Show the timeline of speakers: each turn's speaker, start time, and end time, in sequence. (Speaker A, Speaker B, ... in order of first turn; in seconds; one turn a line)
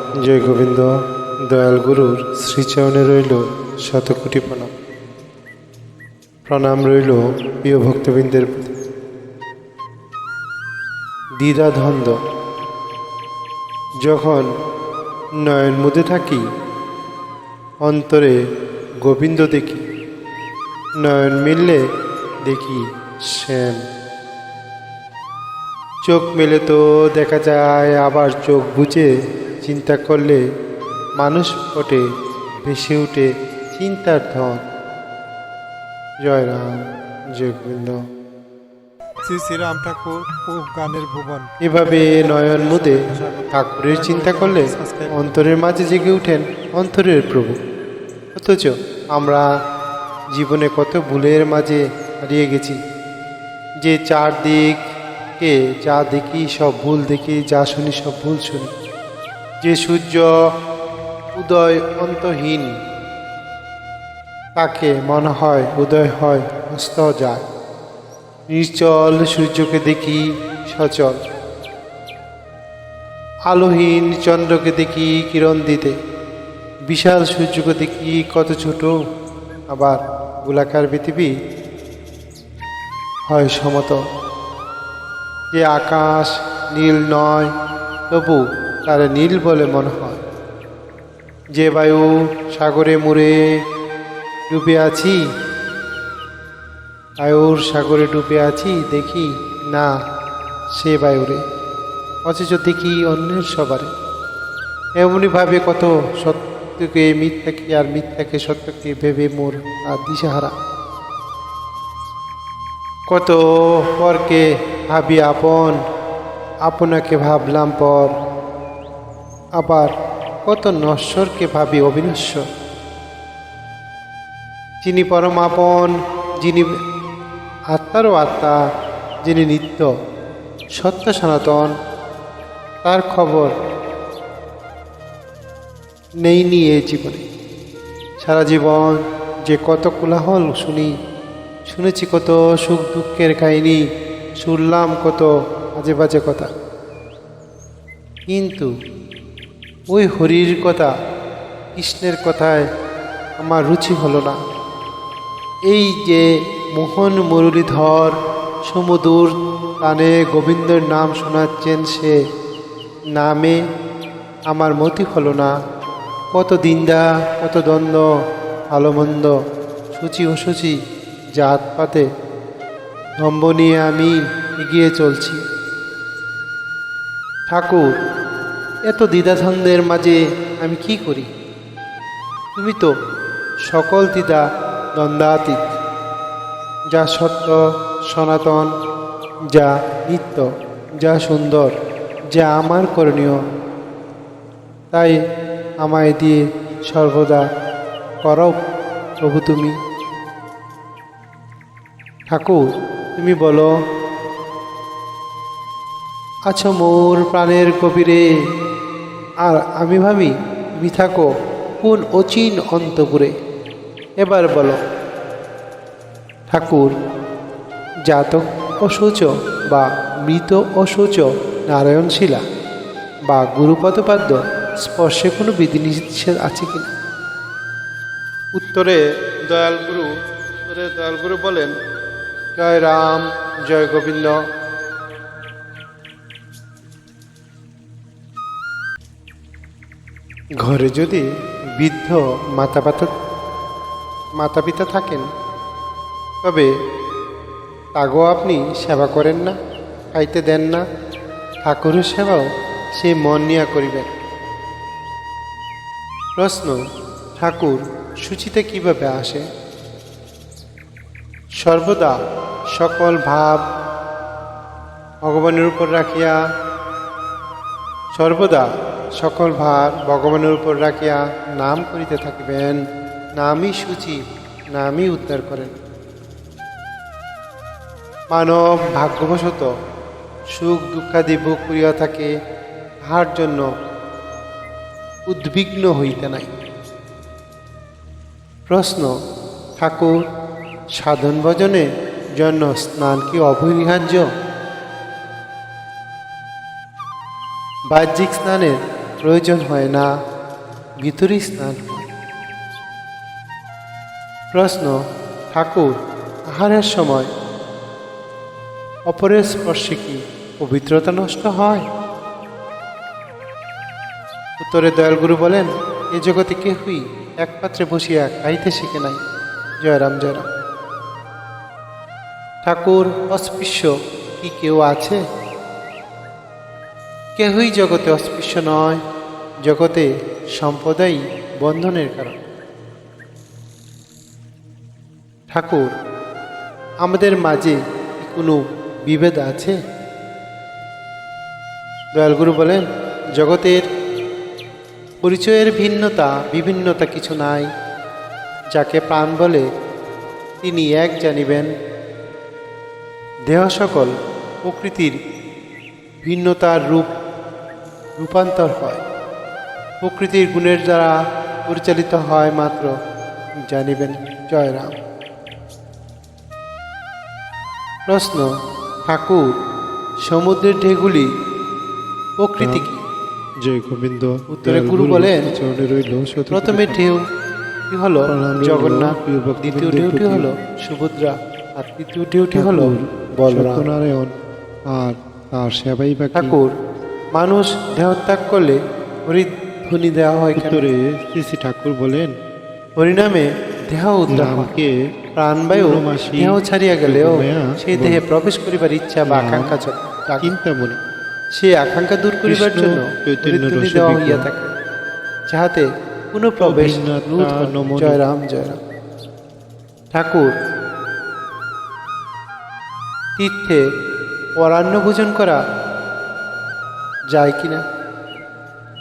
Speaker A: 0.2-0.9
Speaker A: 1.5-4.7
Speaker A: 6.5-8.7
Speaker A: 11.4-12.2
Speaker A: 14.1-14.5
Speaker A: 15.4-16.4
Speaker A: 17.8-18.4
Speaker A: 19.1-19.8
Speaker A: 21.0-21.8
Speaker A: 22.5-23.8
Speaker A: 26.0-29.1
Speaker A: 29.6-30.4
Speaker A: 31.2-32.0
Speaker A: 32.7-34.6
Speaker A: 36.2-36.8
Speaker A: 37.4-38.0
Speaker B: 39.2-41.5
Speaker A: 41.6-43.0
Speaker B: 42.1-45.4
Speaker A: 43.5-47.6
Speaker A: 48.4-49.5
Speaker A: 50.3-52.8
Speaker A: 53.8-54.8
Speaker A: 55.4-58.7
Speaker A: 59.6-60.3
Speaker A: 61.4-62.7
Speaker A: 64.6-67.4
Speaker A: 68.5-71.2
Speaker A: 73.5-76.0
Speaker A: 76.9-78.9
Speaker A: 79.7-81.3
Speaker A: 83.3-84.0
Speaker A: 85.5-87.5
Speaker A: 88.1-90.2
Speaker A: 91.6-93.3
Speaker A: 94.5-95.2
Speaker A: 97.2-99.9
Speaker A: 100.8-101.4
Speaker A: 102.3-103.9
Speaker A: 105.0-110.5
Speaker A: 113.1-115.8
Speaker A: 116.7-118.1
Speaker A: 119.6-119.9
Speaker A: 120.5-122.4
Speaker A: 124.8-126.7
Speaker A: 127.7-128.6
Speaker A: 129.2-129.9
Speaker A: 130.8-131.7
Speaker A: 132.8-133.5
Speaker A: 136.2-137.2
Speaker A: 138.2-140.9
Speaker A: 141.7-143.8
Speaker A: 144.4-146.5
Speaker A: 148.3-148.7
Speaker A: 149.9-150.9
Speaker A: 151.8-152.7
Speaker A: 153.4-154.4
Speaker A: 155.7-158.2
Speaker A: 158.7-162.2
Speaker A: 163.2-163.6
Speaker A: 164.5-165.5
Speaker A: 166.3-168.1
Speaker A: 168.7-169.3
Speaker A: 169.9-170.8
Speaker A: 171.4-172.1
Speaker A: 173.2-175.4
Speaker A: 177.5-177.9
Speaker A: 178.9-181.3
Speaker A: 182.6-182.9
Speaker A: 183.7-184.4
Speaker A: 185.0-185.6
Speaker A: 186.9-187.6
Speaker A: 188.1-188.7
Speaker A: 189.5-190.5
Speaker A: 191.0-191.7
Speaker A: 192.3-193.4
Speaker A: 195.8-196.4
Speaker A: 196.9-197.4
Speaker A: 198.2-198.6
Speaker A: 199.2-199.7
Speaker A: 202.3-202.6
Speaker A: 203.2-203.7
Speaker A: 206.5-208.2
Speaker A: 209.5-211.3
Speaker A: 211.8-213.3
Speaker A: 214.2-214.8
Speaker A: 216.5-216.9
Speaker A: 218.1-222.4
Speaker A: 223.3-226.9
Speaker A: 228.6-230.1
Speaker A: 230.7-231.7
Speaker A: 232.6-234.4
Speaker A: 240.6-241.2
Speaker A: 241.8-243.1
Speaker A: 244.4-245.3
Speaker A: 246.4-246.7
Speaker A: 248.0-249.6
Speaker A: 250.1-250.8
Speaker A: 251.7-252.5
Speaker A: 253.0-254.1
Speaker A: 256.4-256.8
Speaker A: 257.4-259.4
Speaker A: 261.6-262.1
Speaker A: 262.8-263.6
Speaker A: 265.2-266.4
Speaker A: 268.1-268.7
Speaker A: 269.2-272.8
Speaker A: 273.4-274.2
Speaker A: 274.8-275.8
Speaker A: 278.3-279.7
Speaker A: 280.6-282.3
Speaker A: 283.0-283.7
Speaker A: 285.3-286.5
Speaker A: 288.7-289.1
Speaker A: 289.8-290.1
Speaker A: 291.0-291.9
Speaker A: 292.4-294.3
Speaker A: 297.9-300.1
Speaker A: 301.0-302.1
Speaker A: 304.5-304.9
Speaker A: 305.5-305.9
Speaker A: 306.5-307.3
Speaker A: 309.1-311.8
Speaker A: 314.6-319.2
Speaker A: 319.8-320.5
Speaker A: 322.6-325.2
Speaker A: 327.4-329.0
Speaker A: 329.6-332.4
Speaker A: 335.5-335.9
Speaker A: 337.0-339.7
Speaker A: 342.1-342.8
Speaker A: 343.4-343.8
Speaker A: 345.2-347.7
Speaker A: 348.7-349.6
Speaker A: 350.6-351.7
Speaker A: 353.5-354.1
Speaker A: 354.6-355.2
Speaker A: 356.2-357.1
Speaker A: 358.2-359.0
Speaker A: 360.0-361.1
Speaker A: 361.7-362.9
Speaker A: 363.7-364.9
Speaker A: 368.1-368.5
Speaker A: 369.1-369.4
Speaker A: 370.3-371.3
Speaker A: 372.4-373.0
Speaker B: 372.6-372.9
Speaker B: 373.6-377.0
Speaker A: 374.5-375.4
Speaker A: 376.5-377.2
Speaker A: 377.9-383.9
Speaker B: 378.3-380.5
Speaker B: 382.5-384.3
Speaker B: 384.9-386.6
Speaker A: 386.3-386.7
Speaker A: 387.4-388.8
Speaker A: 389.3-390.9
Speaker B: 390.6-392.3
Speaker A: 393.0-394.7
Speaker B: 394.3-394.9
Speaker A: 395.4-400.5
Speaker B: 395.7-398.2
Speaker B: 399.3-399.7
Speaker B: 400.4-401.0
Speaker A: 401.6-404.7
Speaker B: 402.5-404.5
Speaker A: 405.5-408.8
Speaker B: 406.6-408.2
Speaker A: 410.1-410.5
Speaker A: 413.4-413.8
Speaker A: 414.6-415.6
Speaker A: 417.3-417.8